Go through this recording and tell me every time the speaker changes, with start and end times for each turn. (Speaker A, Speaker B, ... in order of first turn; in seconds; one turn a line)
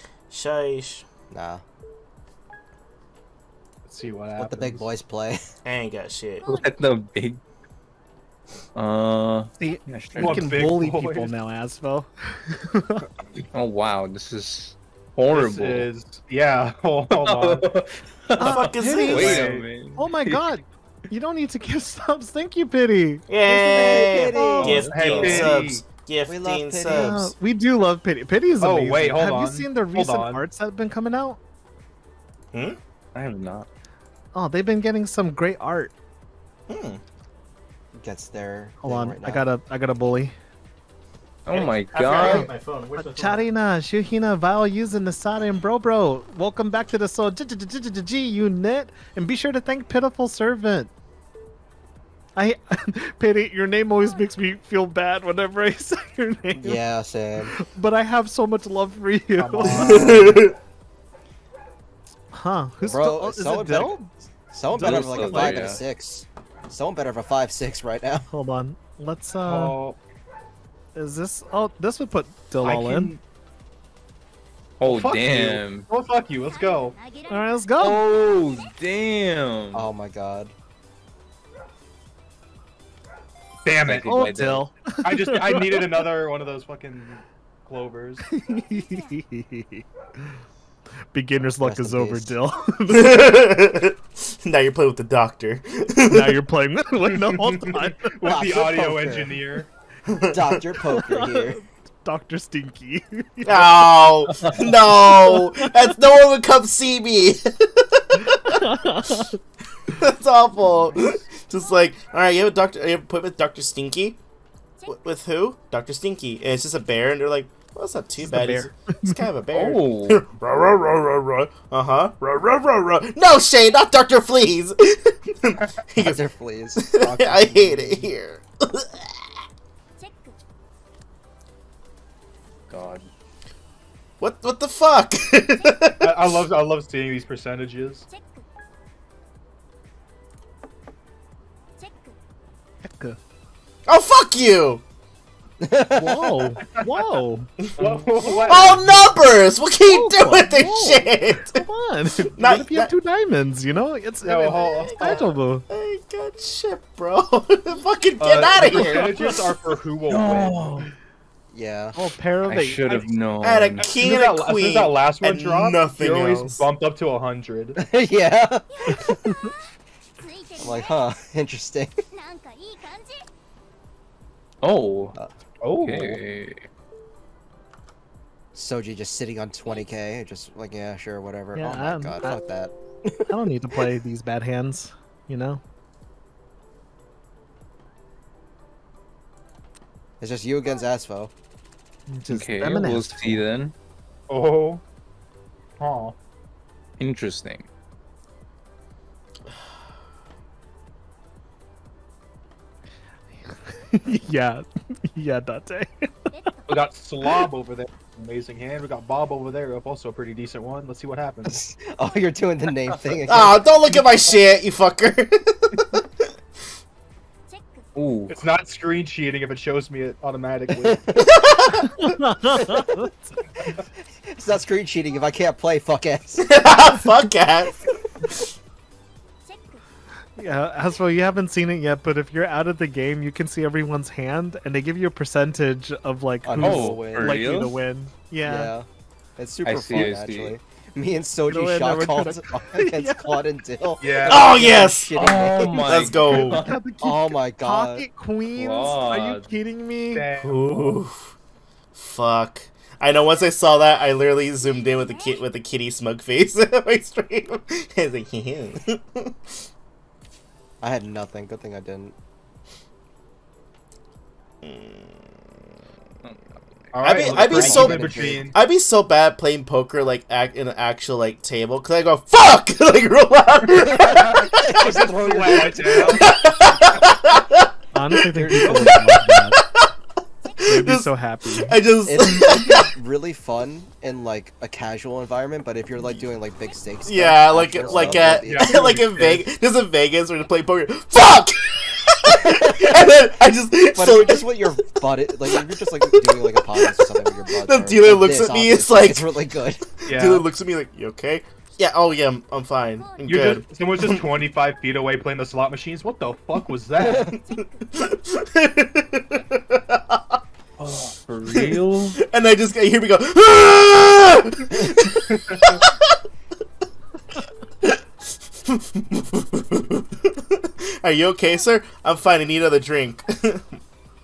Speaker A: 0.3-1.1
Speaker B: 1.3-1.6
Speaker C: 3.9-4.9
Speaker B: 4.4-5.4
Speaker A: 5.7-6.5
Speaker D: 6.5-7.4
Speaker D: 8.8-10.5
Speaker E: 9.6-13.1
Speaker C: 10.2-11.3
Speaker D: 13.5-15.9
Speaker C: 15.3-17.7
Speaker D: 17.2-20.4
Speaker E: 18.4-24.8
Speaker A: 18.4-19.4
Speaker C: 19.1-19.7
Speaker A: 23.3-27.4
Speaker B: 23.5-24.9
Speaker D: 24.6-25.6
Speaker C: 24.9-25.8
Speaker B: 26.3-27.2
Speaker E: 26.9-31.4
Speaker C: 28.6-30.4
Speaker A: 32.5-32.8
Speaker D: 33.1-33.7
Speaker E: 34.4-35.9
Speaker A: 36.7-37.0
Speaker B: 38.0-39.5
Speaker E: 38.8-40.3
Speaker D: 41.5-42.5
Speaker A: 41.5-43.5
Speaker E: 42.2-50.9
Speaker E: 52.4-56.8
Speaker B: 56.6-57.5
Speaker E: 57.5-60.3
Speaker C: 59.4-60.4
Speaker A: 59.8-60.5
Speaker E: 62.3-64.0
Speaker B: 62.9-68.3
Speaker D: 64.7-65.8
Speaker C: 64.7-65.5
Speaker E: 65.2-65.5
Speaker E: 68.3-69.8
Speaker C: 69.4-70.0
Speaker E: 71.0-73.1
Speaker C: 72.6-73.2
Speaker D: 74.8-75.9
Speaker C: 74.8-77.0
Speaker E: 77.3-78.0
Speaker D: 77.8-79.9
Speaker B: 79.7-80.5
Speaker C: 83.6-84.1
Speaker D: 83.8-84.7
Speaker E: 84.1-86.1
Speaker C: 85.0-88.3
Speaker E: 88.3-89.8
Speaker E: 91.1-93.4
Speaker B: 91.4-92.3
Speaker A: 92.9-96.4
Speaker E: 96.1-98.9
Speaker C: 97.1-99.7
Speaker B: 98.2-99.3
Speaker A: 100.1-100.6
Speaker B: 100.3-101.6
Speaker E: 100.9-103.9
Speaker A: 103.5-108.7
Speaker E: 104.9-105.7
Speaker E: 108.2-109.4
Speaker A: 109.9-114.2
Speaker C: 110.8-111.3
Speaker A: 114.9-126.2
Speaker C: 118.3-118.7
Speaker E: 118.9-119.2
Speaker D: 119.5-120.2
Speaker B: 126.0-126.8
Speaker A: 126.8-129.1
Speaker C: 127.0-128.1
Speaker D: 132.7-133.1
Speaker A: 134.2-136.3
Speaker C: 136.0-138.1
Speaker E: 142.8-143.2
Speaker A: 143.9-144.8
Speaker B: 145.6-146.6
Speaker E: 145.9-149.2
Speaker C: 146.7-147.1
Speaker A: 147.6-151.6
Speaker C: 147.8-148.8
Speaker E: 149.9-155.7
Speaker A: 152.4-152.9
Speaker C: 154.2-155.2
Speaker A: 154.5-159.3
Speaker C: 158.2-160.9
Speaker E: 158.9-159.3
Speaker D: 160.1-160.9
Speaker B: 161.5-162.0
Speaker E: 161.9-162.9
Speaker D: 162.5-163.9
Speaker A: 163.4-166.7
Speaker C: 163.8-167.8
Speaker B: 167.8-169.3
Speaker B: 170.6-172.0
Speaker D: 174.6-175.2
Speaker C: 175.6-176.2
Speaker D: 175.7-176.7
Speaker B: 178.6-183.3
Speaker E: 181.6-182.4
Speaker E: 183.3-185.6
Speaker B: 190.2-191.3
Speaker E: 192.1-193.5
Speaker D: 192.3-193.8
Speaker C: 194.3-194.8
Speaker C: 195.8-196.2
Speaker D: 197.0-197.7
Speaker E: 203.5-206.1
Speaker C: 206.7-211.6
Speaker B: 211.5-213.6
Speaker A: 213.3-216.0
Speaker D: 217.9-218.4
Speaker C: 218.3-221.0
Speaker B: 220.7-221.4
Speaker A: 221.2-221.9
Speaker E: 221.8-223.4
Speaker B: 224.2-226.5
Speaker A: 226.4-227.8
Speaker E: 230.4-238.7
Speaker B: 236.4-237.4
Speaker D: 236.6-237.8
Speaker B: 238.4-246.1
Speaker D: 239.7-240.6
Speaker E: 241.5-243.4
Speaker C: 244.0-244.5
Speaker A: 244.2-245.1
Speaker D: 245.1-246.8
Speaker A: 245.9-246.7
Speaker E: 246.4-250.3
Speaker B: 247.0-248.1
Speaker D: 248.6-249.5
Speaker C: 250.1-251.0
Speaker A: 250.4-251.3
Speaker A: 251.9-259.6
Speaker B: 260.8-262.1
Speaker A: 264.6-265.5
Speaker D: 266.2-267.9
Speaker C: 266.9-268.6
Speaker A: 267.0-279.9
Speaker B: 267.3-268.5
Speaker C: 273.7-276.3
Speaker B: 274.6-276.1
Speaker E: 277.9-279.6
Speaker B: 278.4-278.9
Speaker A: 280.6-282.9
Speaker E: 280.6-281.8
Speaker B: 282.1-288.7
Speaker A: 287.1-294.6
Speaker C: 288.4-289.5
Speaker B: 292.3-293.1
Speaker B: 293.9-299.9
Speaker A: 295.5-299.3
Speaker A: 299.9-304.2
Speaker C: 300.1-300.4
Speaker C: 303.3-307.4
Speaker A: 307.0-310.4
Speaker D: 310.8-312.2
Speaker A: 311.5-316.2
Speaker C: 315.3-315.8
Speaker A: 318.6-323.8